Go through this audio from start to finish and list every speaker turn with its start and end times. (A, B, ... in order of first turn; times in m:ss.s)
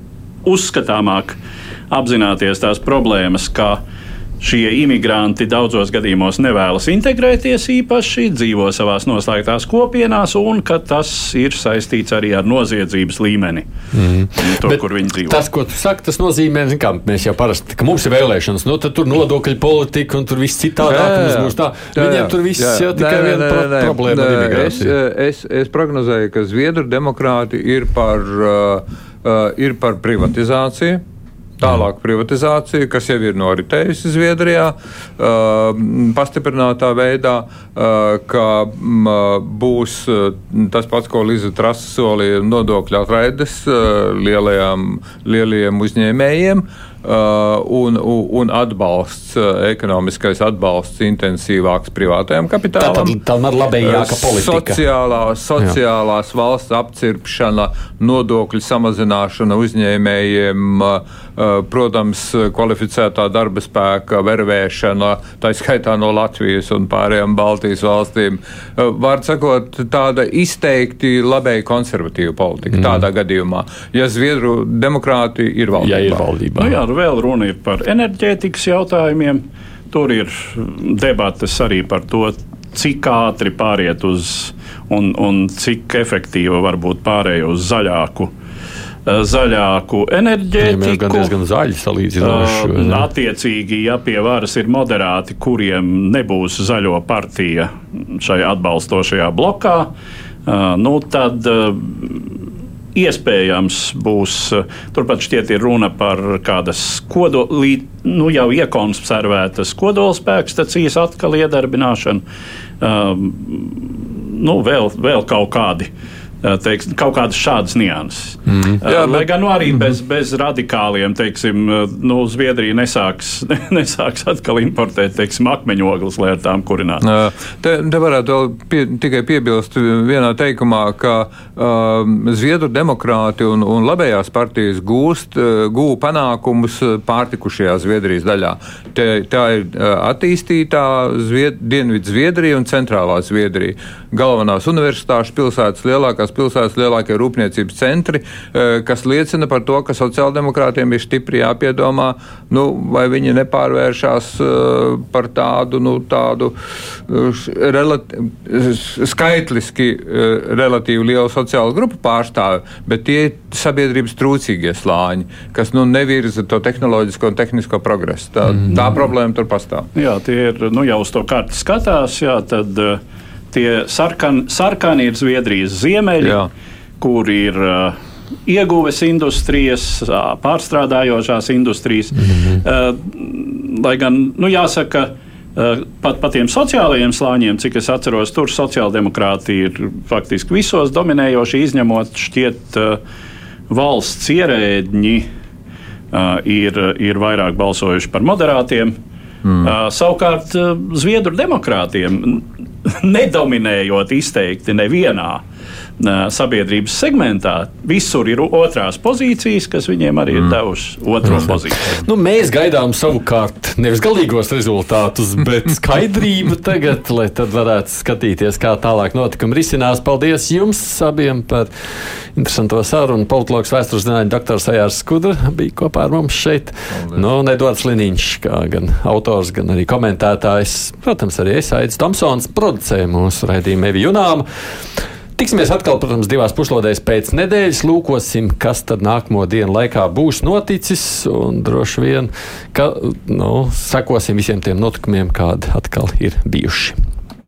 0:00.4-0:01.4 A
0:01.9-0:03.8 A
0:04.4-0:13.7 A
0:13.9-0:25.0 B
0:14.4-0:15.4 A
0:20.9-0:31.0 C
0:31.6-0:53.2 C
0:52.8-0:54.8 B
0:53.8-1:16.2 C
1:15.8-1:16.8 B
1:16.6-1:28.3 A
1:29.0-1:31.3 A
1:30.6-1:33.1 B
1:32.2-1:39.9 A
1:40.4-1:52.2 A
1:52.8-1:55.9 A
1:56.4-2:07.0 A
1:58.5-1:58.8 B
1:58.8-1:59.3 C
2:07.0-2:36.5 C
2:37.0-2:49.9 C
2:49.9-2:53.0 A
2:53.5-2:56.4 A
2:56.2-2:56.5 C
2:57.0-3:13.0 A
3:02.2-3:02.6 B
3:13.7-3:15.2 A
3:16.1-3:18.9 A
3:19.5-3:25.4 A
3:26.0-3:31.9 A
3:31.2-3:41.7 B
3:42.3-4:07.0 B
3:47.0-3:47.2 C